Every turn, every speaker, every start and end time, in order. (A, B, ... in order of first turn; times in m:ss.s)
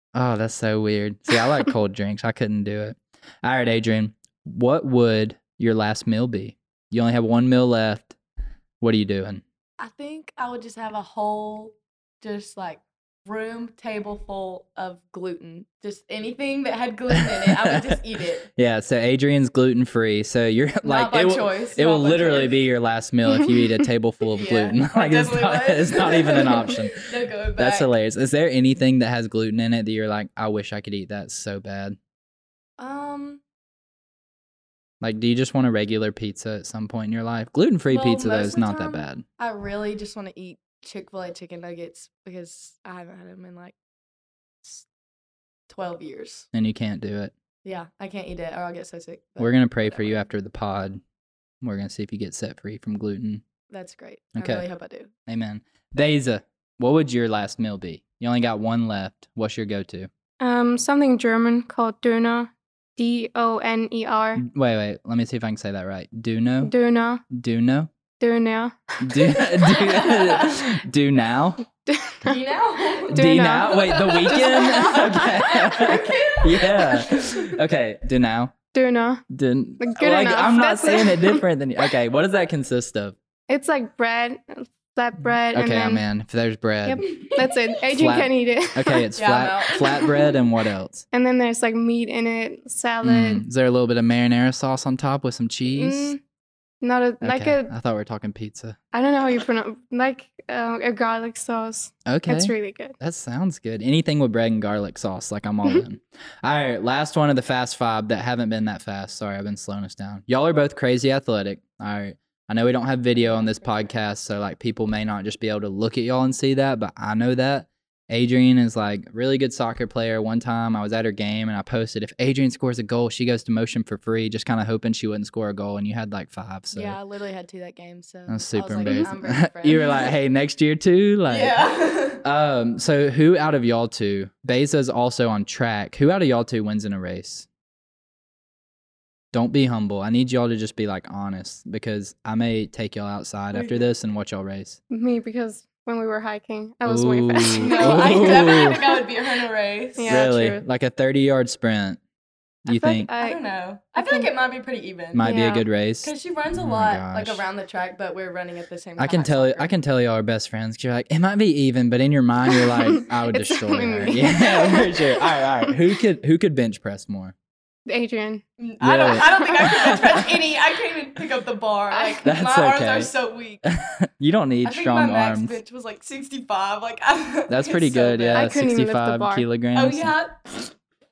0:00.2-0:08.2 A
0:01.3-0:01.7 B
0:08.8-0:09.4 A
0:09.8-0:18.5 C
0:17.1-0:18.0 A
0:18.5-0:27.0 A
0:20.8-0:22.6 C
0:23.4-0:23.6 B
0:24.3-0:27.9 C
0:27.6-0:32.0 A
0:32.8-0:33.4 C
0:35.0-0:39.2 A
0:37.9-0:43.8 C
0:45.7-0:46.5 C
0:46.5-0:47.3 A
0:47.6-0:50.3 C
0:49.4-0:51.0 A
0:51.6-0:53.4 A
0:53.7-0:55.1 C
0:54.4-0:54.6 A
0:55.3-1:00.1 A
1:00.4-1:04.4 B
1:04.4-1:06.7 A
1:06.6-1:07.2 B
1:07.3-1:07.9 A
1:08.2-1:10.1 B
1:09.0-1:11.6 A
1:09.7-1:10.5 C
1:11.9-1:12.4 B
1:12.2-1:17.5 C
1:13.1-1:16.0 B
1:13.1-1:18.5 A
1:18.7-1:19.2 B
1:19.3-1:23.2 A
1:19.8-1:21.4 B
1:23.5-1:26.0 B
1:25.5-1:27.1 A
1:26.8-1:29.1 B
1:27.9-1:31.0 A
1:29.2-1:30.2 C
1:31.1-1:33.4 B
1:33.0-1:36.1 A
1:35.7-1:36.2 B
1:36.8-1:37.7 B
1:37.2-1:38.8 A
1:38.9-1:43.0 B
1:42.1-2:07.0 A
1:53.1-1:54.0 C
2:06.7-2:10.1 C
2:08.3-2:11.6 A
2:08.8-2:09.1 B
2:11.3-2:12.2 C
2:12.2-2:17.5 A
2:19.3-2:24.8 A
2:23.5-2:23.9 C
2:24.9-2:28.8 B
2:26.8-2:28.8 A
2:27.5-2:30.3 C
2:30.0-2:30.6 B
2:30.1-2:32.0 A
2:32.7-2:33.1 A
2:32.7-2:33.4 B
2:33.2-2:35.3 C
2:34.0-2:34.3 B
2:35.1-2:37.4 A
2:35.2-2:35.6 B
2:36.0-2:39.8 C
2:39.0-2:47.4 A
2:42.5-2:45.4 B
2:47.9-2:48.4 B
2:48.6-2:53.6 C
2:48.8-2:50.3 A
2:49.2-2:49.8 B
2:51.9-2:52.3 B
2:52.2-2:53.1 A
2:53.7-2:55.6 A
2:54.6-2:58.5 C
2:57.5-3:00.1 A
2:58.3-2:59.5 B
2:59.8-3:00.7 C